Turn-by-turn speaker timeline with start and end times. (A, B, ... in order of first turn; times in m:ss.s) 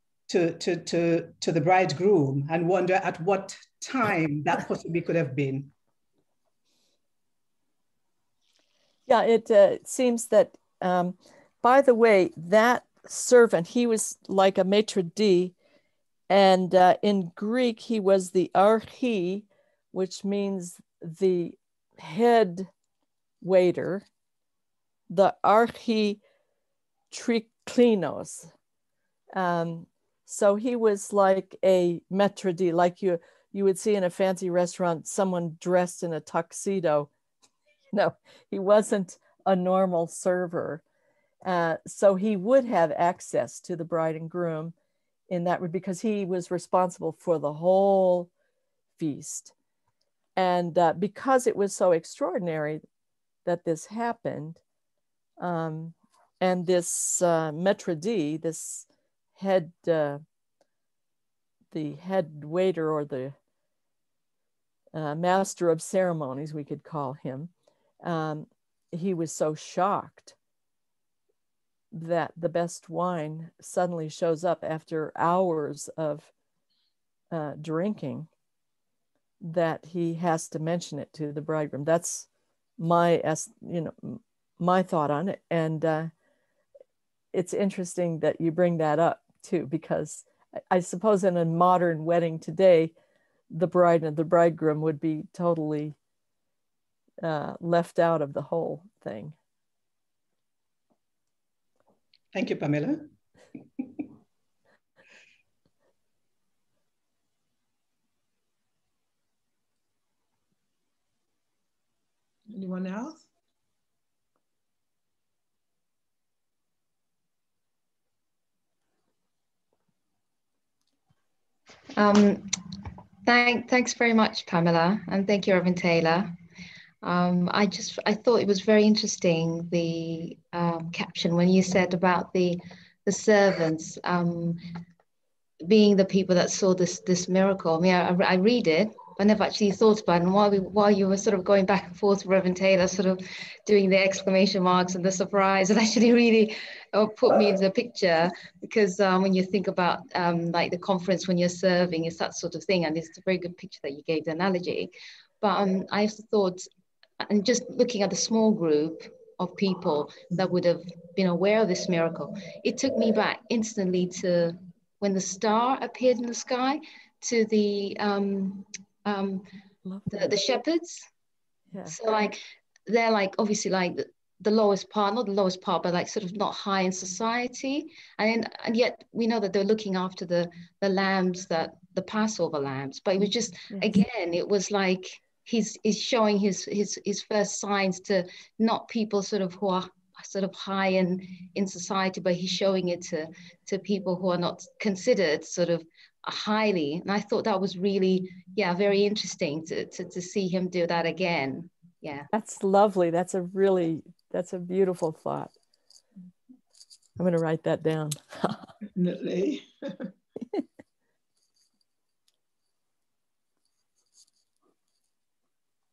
0:00.3-0:05.7 A
0:09.1-0:15.5 B
0:16.3-0:22.7 B
0:23.4-0:24.1 B
0:25.1-0:26.2 B
0:27.1-0:28.5 B
0:29.3-0:37.1 B
0:37.9-0:40.8 B
0:41.4-0:44.7 B
0:45.3-0:48.3 B
0:49.0-0:49.5 B
0:50.4-0:52.8 B
0:53.5-0:54.6 B
0:55.4-1:00.2 B
1:01.7-1:03.4 B
1:04.9-1:07.5 B
1:08.0-1:10.4 B
1:11.9-1:16.3 B
1:17.3-1:18.3 B
1:19.4-1:22.3 B
1:22.8-1:26.1 B
1:27.3-1:32.9 B
1:33.5-1:36.0 B
1:37.2-1:39.4 B
1:42.3-1:43.1 A
1:52.5-1:53.3 C
2:02.0-2:02.6 D
2:03.3-2:06.3 D
2:07.0-2:14.6 D
2:15.6-2:36.7 D
2:37.2-2:49.5 D
2:49.8-2:50.3 B
2:50.1-2:51.1 D
2:51.9-3:22.3 D
3:03.7-3:04.0 B
3:22.3-3:25.5 B
3:27.2-3:28.7 B
3:29.0-3:30.1 C